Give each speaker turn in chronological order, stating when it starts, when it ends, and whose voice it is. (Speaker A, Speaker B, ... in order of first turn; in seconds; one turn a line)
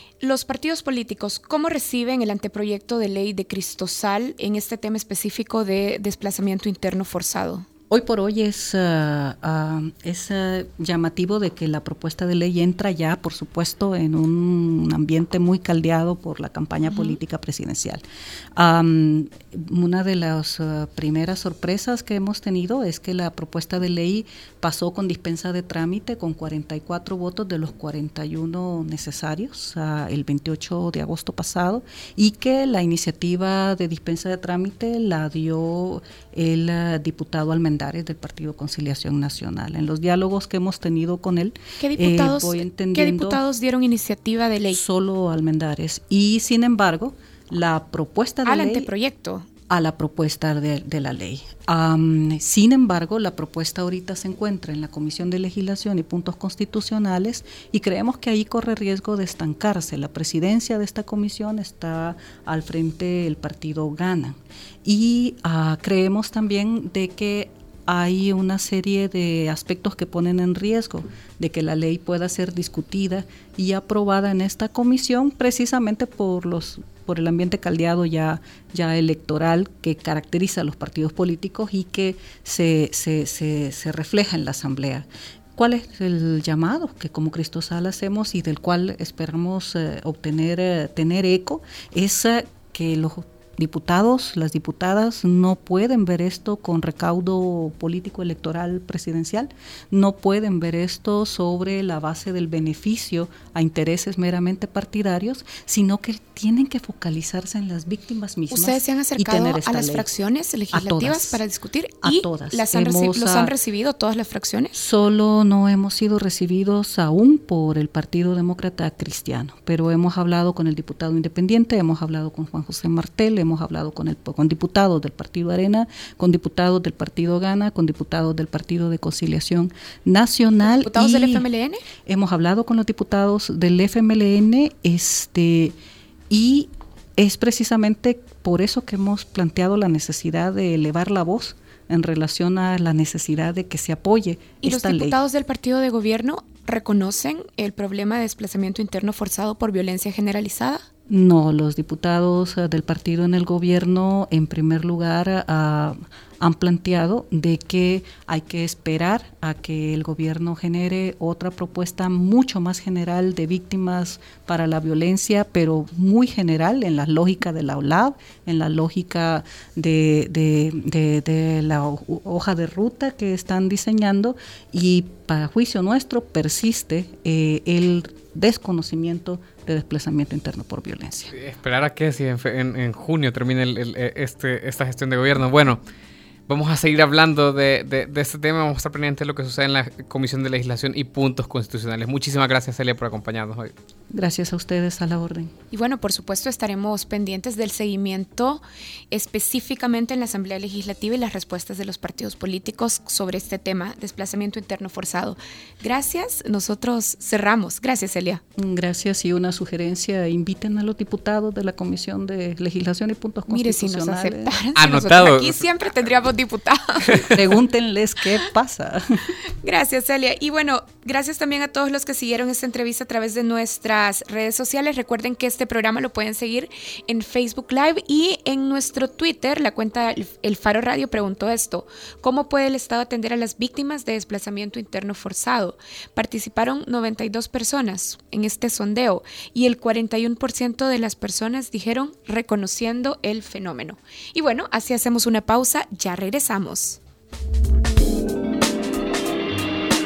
Speaker A: 0.2-7.7
Speaker B: 7.9-18.0
Speaker B: 18.6-43.4
Speaker A: 41.8-44.8
Speaker B: 44.7-48.9
Speaker A: 48.5-49.5
Speaker B: 49.7-110.1
Speaker A: 108.5-114.8
Speaker B: 110.7-111.4
Speaker B: 112.0-113.5
Speaker B: 114.8-131.4
Speaker A: 130.7-131.8
Speaker B: 132.1-135.8
Speaker B: 136.3-145.2
Speaker A: 144.6-150.8
Speaker B: 151.1-181.3
Speaker C: 181.3-185.8
Speaker C: 186.5-193.7
Speaker B: 194.1-195.5
Speaker A: 195.7-208.4
Speaker B: 208.6-214.6
Speaker A: 213.5-217.4
Speaker C: 214.8-215.6
Speaker B: 217.3-219.1
Speaker A: 219.6-247.0